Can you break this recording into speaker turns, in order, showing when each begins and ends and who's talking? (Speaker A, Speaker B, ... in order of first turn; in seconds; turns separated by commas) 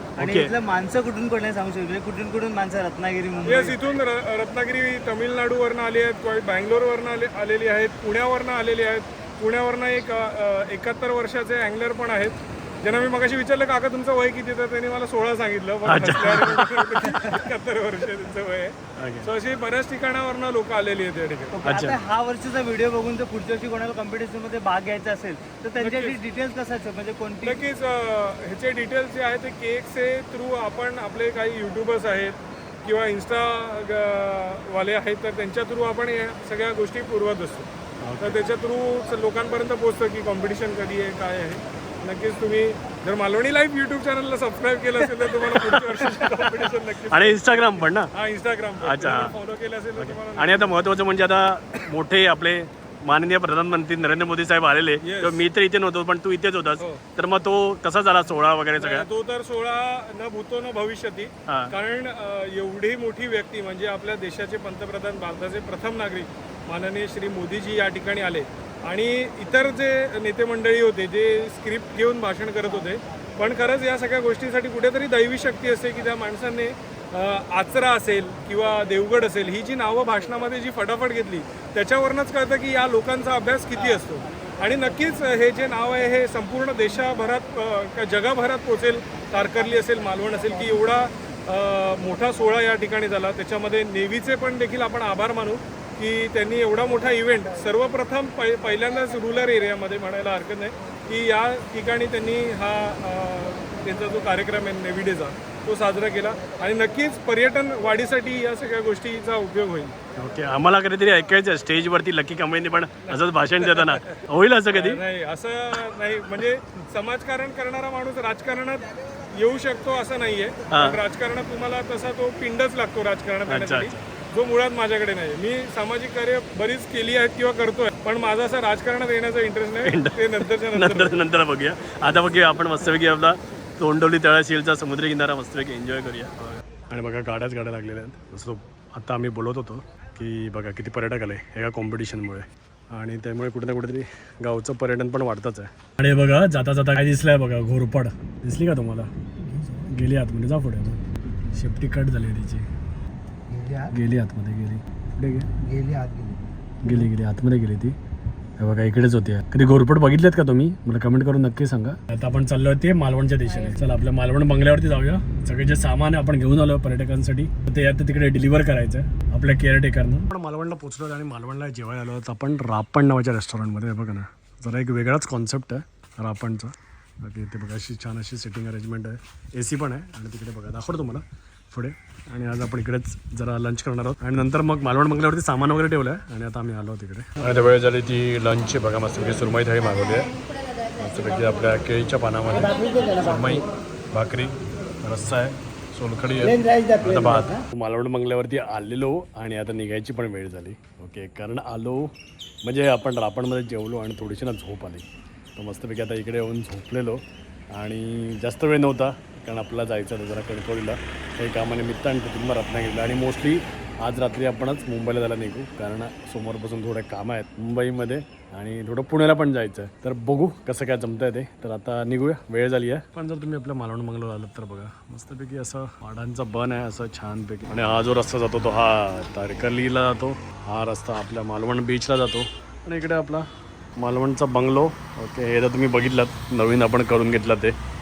Speaker A: 0.2-0.5, Speaker B: 0.2-3.8, Speaker C: 3.5-21.6, Speaker A: 15.8-16.7, Speaker B: 17.1-17.4, Speaker A: 19.0-19.3, Speaker B: 21.6-27.6, Speaker A: 21.6-22.0, Speaker C: 25.8-26.2, Speaker C: 27.4-37.7, Speaker A: 38.0-38.4, Speaker C: 38.2-50.8, Speaker A: 45.0-48.1, Speaker A: 48.8-49.3, Speaker A: 50.0-59.1, Speaker C: 55.0-55.4, Speaker C: 58.8-109.9, Speaker A: 61.5-61.7, Speaker A: 110.2-115.0, Speaker C: 113.1-114.1, Speaker C: 114.7-131.2, Speaker A: 120.7-121.0, Speaker A: 123.5-124.0, Speaker A: 129.8-149.1, Speaker A: 149.7-152.7, Speaker A: 153.9-155.5, Speaker A: 156.8-158.0, Speaker A: 158.6-190.3, Speaker A: 190.9-202.1, Speaker B: 192.7-193.5, Speaker B: 196.4-197.6, Speaker A: 202.6-205.1, Speaker A: 205.6-207.2, Speaker A: 207.7-233.5, Speaker A: 234.0-237.8